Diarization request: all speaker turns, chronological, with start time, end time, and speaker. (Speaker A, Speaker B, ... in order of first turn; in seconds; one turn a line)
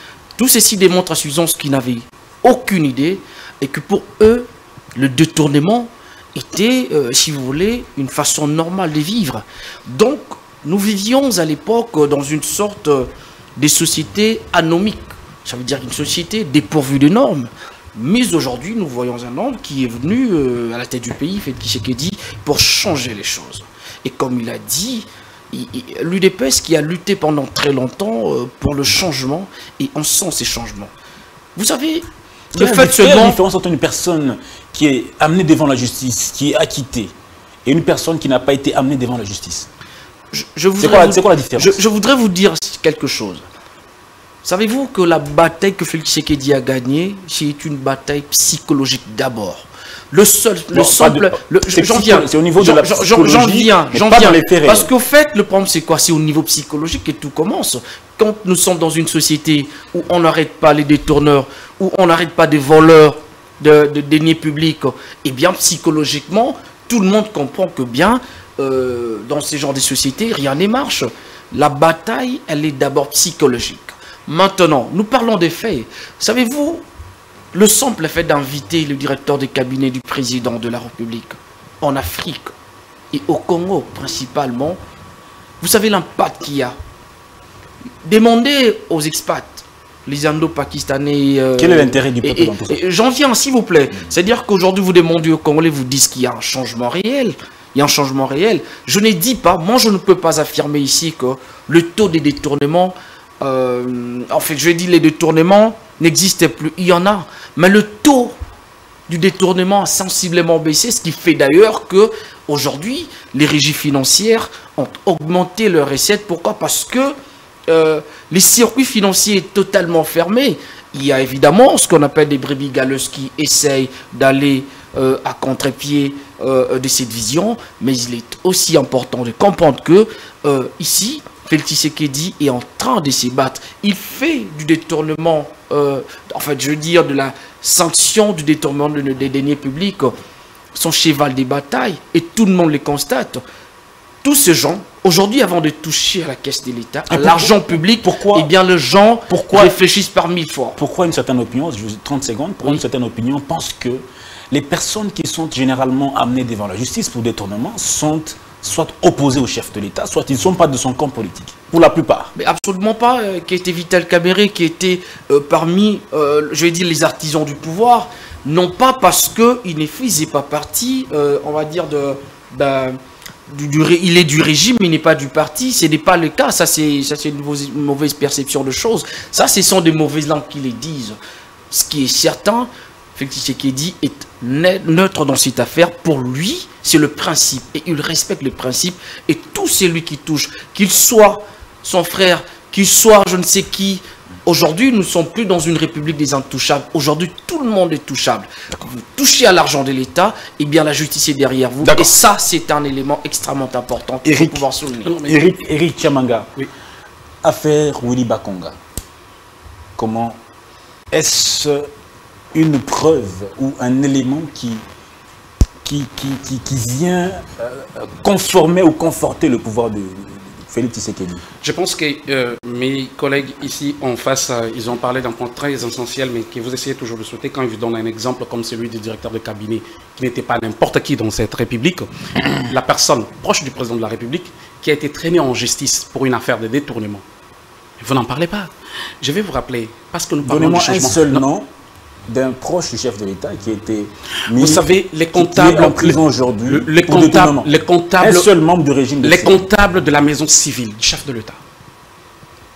Speaker A: 0.4-30.9
Speaker A: 31.6-33.4
Speaker B: 32.5-37.1
Speaker B: 37.6-39.7
Speaker A: 40.3-43.5
Speaker B: 40.8-41.8
Speaker A: 44.4-76.8
Speaker B: 50.7-54.9
Speaker A: 77.5-82.5
Speaker A: 83.1-84.8
Speaker A: 85.6-86.8
Speaker A: 88.0-108.3
Speaker B: 91.6-92.8
Speaker A: 109.1-117.2
Speaker A: 117.7-140.2
Speaker A: 140.7-143.4
Speaker A: 144.2-150.8
Speaker B: 147.1-148.5
Speaker B: 149.3-149.7
Speaker B: 150.8-162.3
Speaker A: 162.3-181.2
Speaker A: 181.7-205.2
Speaker B: 201.8-202.1
Speaker B: 204.2-204.6
Speaker C: 205.0-205.4
Speaker B: 205.2-206.5
Speaker B: 207.4-208.8
Speaker B: 209.9-210.4
Speaker B: 211.1-211.9
Speaker B: 212.5-214.8
Speaker B: 215.8-221.4
Speaker C: 221.6-237.2
Speaker C: 238.0-238.7
Speaker C: 239.2-241.4
Speaker B: 240.4-241.7
Speaker B: 242.3-244.8
Speaker C: 244.5-248.5
Speaker B: 245.3-249.7
Speaker C: 249.2-251.6